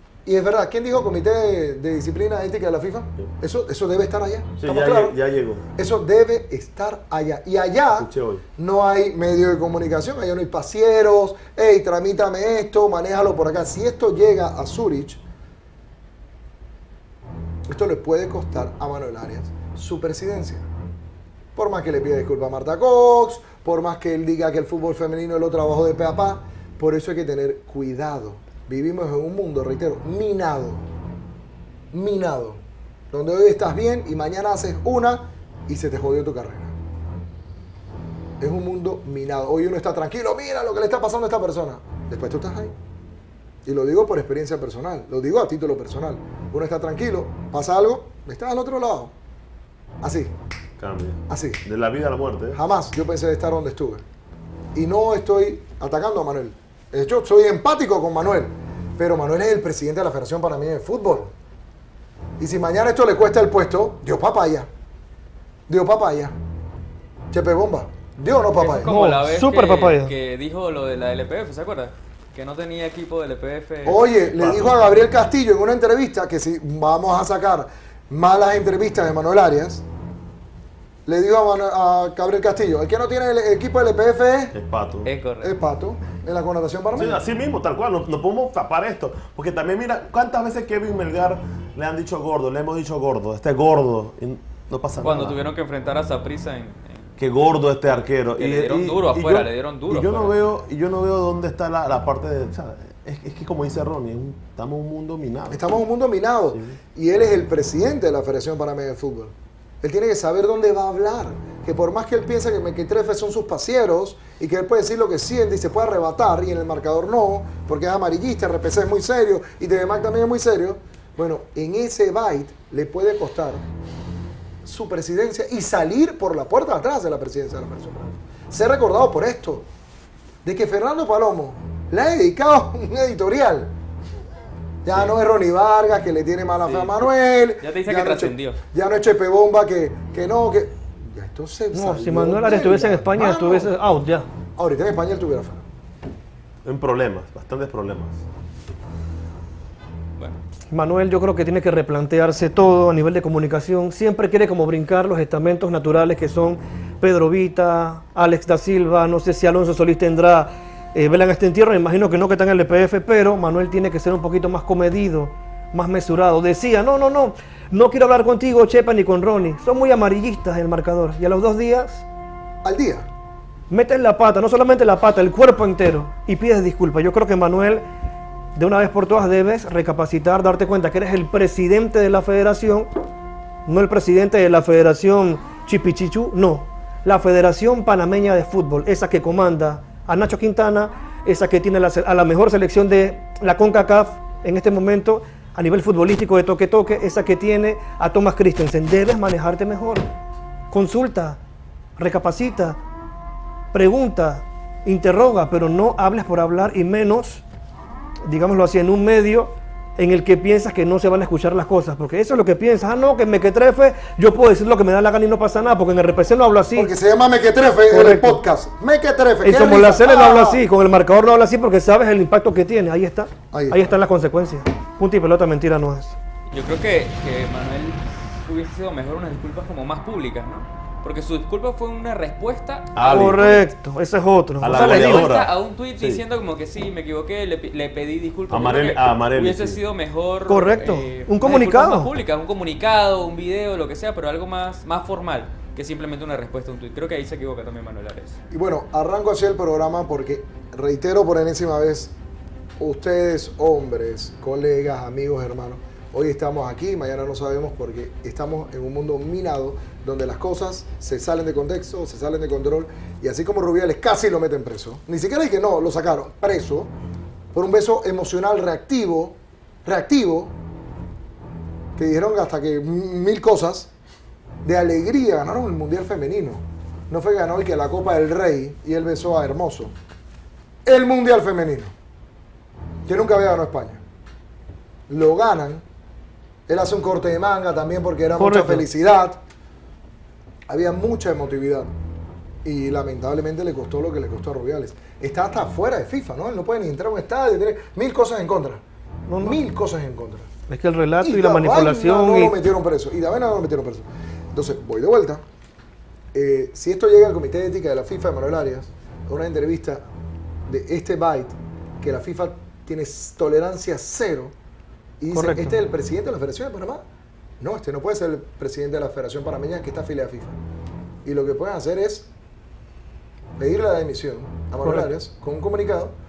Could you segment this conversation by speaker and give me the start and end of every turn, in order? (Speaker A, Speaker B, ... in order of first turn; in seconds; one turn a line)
Speaker A: 0.2-5.2
Speaker B: 4.6-5.6
Speaker A: 5.8-15.2
Speaker B: 8.0-8.4
Speaker A: 17.7-20.6
Speaker A: 21.6-30.9
Speaker A: 31.9-32.6
Speaker A: 33.1-36.7
Speaker A: 38.4-42.7
Speaker A: 43.6-49.1
Speaker A: 50.0-50.3
Speaker B: 50.8-52.6
Speaker A: 51.3-51.6
Speaker A: 52.5-54.0
Speaker A: 54.7-61.3
Speaker A: 62.4-64.7
Speaker A: 65.7-66.3
Speaker A: 67.3-69.0
Speaker C: 68.6-74.0
Speaker D: 68.8-70.1
Speaker A: 73.8-79.8
Speaker B: 73.9-74.9
Speaker A: 81.0-84.5
Speaker B: 84.5-85.1
Speaker C: 85.0-85.5
Speaker A: 85.4-87.2
Speaker B: 86.9-95.4
Speaker C: 95.0-97.1
Speaker B: 97.2-105.8
Speaker C: 98.4-100.3
Speaker A: 105.5-123.6
Speaker B: 106.5-106.8
Speaker A: 124.6-129.6
Speaker A: 130.4-133.7
Speaker A: 134.8-143.7
Speaker C: 136.6-138.6
Speaker D: 141.7-144.3
Speaker A: 144.6-145.6
Speaker B: 146.6-148.2
Speaker D: 150.7-172.0
Speaker A: 172.6-173.0
Speaker D: 173.7-177.8
Speaker D: 178.6-182.9
Speaker D: 183.7-200.1
Speaker D: 200.7-201.4
Speaker D: 202.0-202.8
Speaker D: 203.7-207.4
Speaker D: 208.2-216.9
Speaker A: 216.7-220.6
Speaker D: 217.9-218.4
Speaker D: 219.4-226.1
Speaker A: 223.5-223.8
Speaker C: 226.5-233.7
Speaker B: 232.9-233.5
Speaker D: 233.1-235.3
Speaker B: 234.6-236.2
Speaker C: 234.7-248.4
Speaker B: 238.5-239.8
Speaker D: 240.5-242.1
Speaker A: 248.5-252.1
Speaker A: 252.8-266.9
Speaker A: 267.5-270.5
Speaker A: 272.0-273.9
Speaker A: 274.6-279.9
Speaker A: 280.9-281.9
Speaker A: 283.1-284.0
Speaker A: 285.1-285.8
Speaker A: 286.7-289.4
Speaker D: 288.4-288.8
Speaker A: 290.7-291.9
Speaker A: 292.6-298.8
Speaker D: 299.3-299.6
Speaker A: 299.4-300.5
Speaker D: 300.7-302.5
Speaker A: 301.2-305.4
Speaker A: 306.3-310.0
Speaker A: 310.7-314.5
Speaker A: 315.2-317.0
Speaker D: 315.3-315.8
Speaker A: 317.6-320.6
Speaker A: 321.2-322.3
Speaker A: 323.6-326.1
Speaker D: 324.8-325.1